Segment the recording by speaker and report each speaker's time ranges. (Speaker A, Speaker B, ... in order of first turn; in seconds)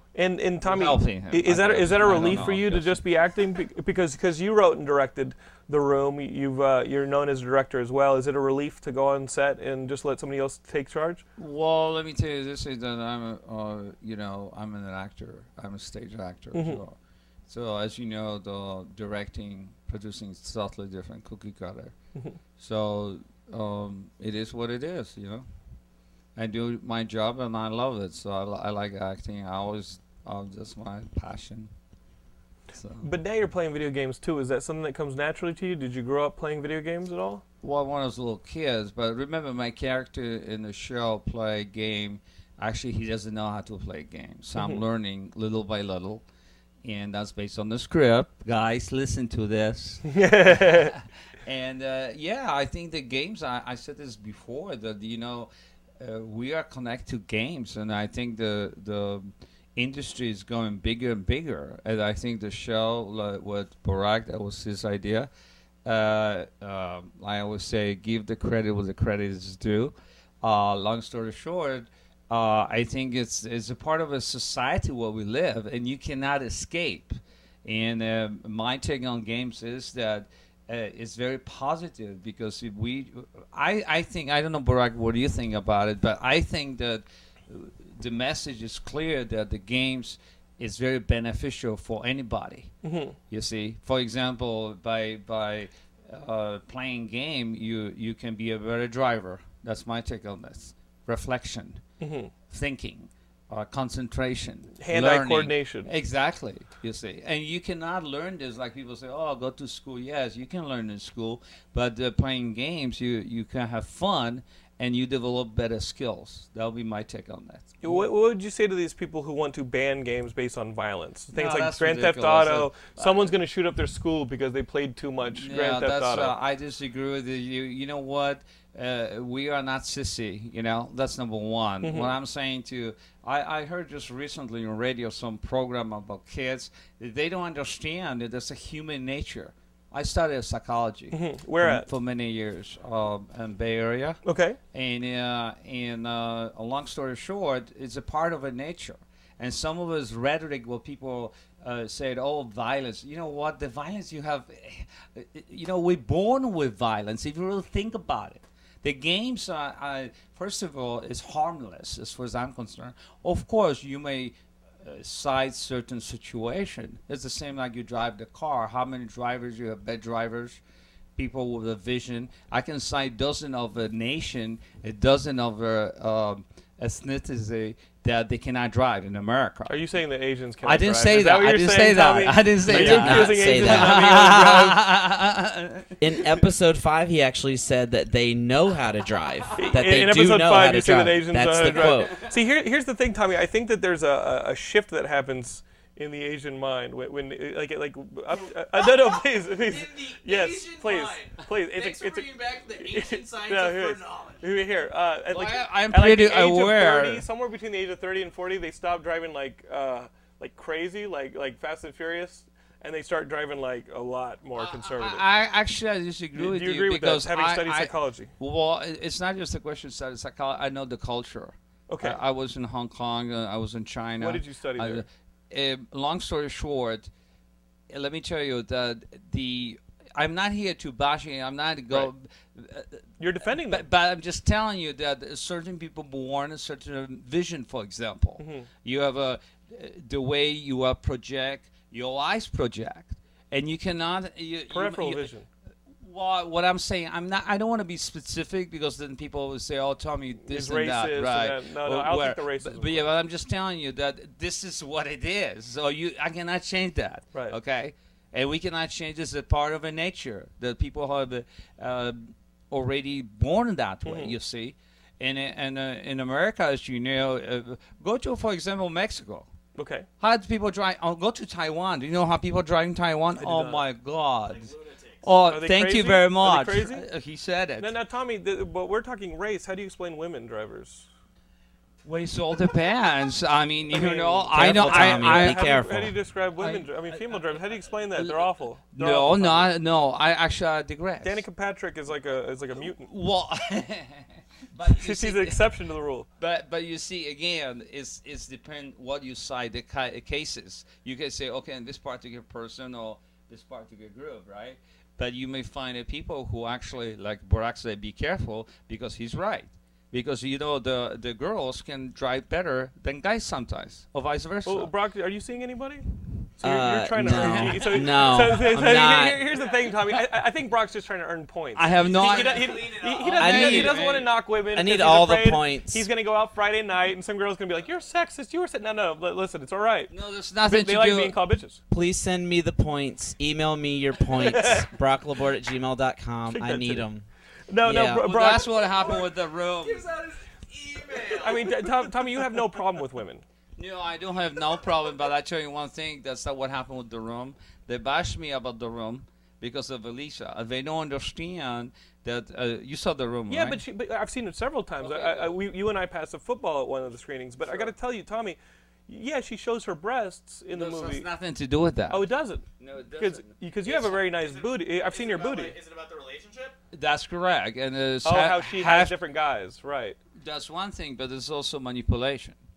Speaker A: 0.1-11.2, 16.5-16.8, 33.0-37.4, 44.5-44.8, 50.1-50.9, 92.8-93.2, 102.0-102.3, 104.8-105.9, 117.8-126.3, 131.8-132.1, 141.1-141.9, 144.2-144.6, 179.7-184.8, 189.6-215.2, 216.3-218.3, 221.9-222.2, 224.2-225.0, 233.2-233.8, 238.4-238.7, 244.7-245.5, 250.4-253.1, 264.0-264.3, 269.8-270.1, 273.3-273.8, 275.5-277.1, 277.8-281.1, 283.9-289.7, 291.2-293.1, 294.9-296.3, 314.6-330.1, 330.6-331.8, 334.4-334.9, 336.5-337.0, 337.7-338.7, 341.2-343.4, 353.5-361.3, 362.1-365.7, 368.2-370.2
Speaker B: 0.6-3.0, 11.4-16.9, 17.5-21.9, 22.6-25.4, 26.4-31.7, 32.8-33.1, 37.6-46.2, 46.8-65.3, 65.8-92.7, 93.3-101.8, 102.5-118.1, 121.3-123.3, 125.3-144.2, 144.7-170.6, 171.2-179.8, 180.6-186.4, 205.3-207.2, 214.6-227.1, 227.9-245.3, 245.9-269.5, 270.2-277.9, 282.0-286.0, 286.6-287.6, 288.1-291.4, 292.8-295.6, 296.4-314.9, 317.2-317.7, 321.8-324.3, 330.1-331.4, 338.2-340.1, 343.8-353.8, 355.0-355.6, 360.7-362.3, 362.8-363.6, 366.9-369.1, 370.4-372.6
Speaker C: 182.7-184.0, 186.0-192.2, 284.5-286.1, 316.6-319.4, 323.4-324.0, 324.7-326.1, 331.9-337.2, 337.8-338.3
Speaker D: 198.7-204.5, 274.4-275.4, 321.9-323.4, 338.6-342.1, 363.8-366.8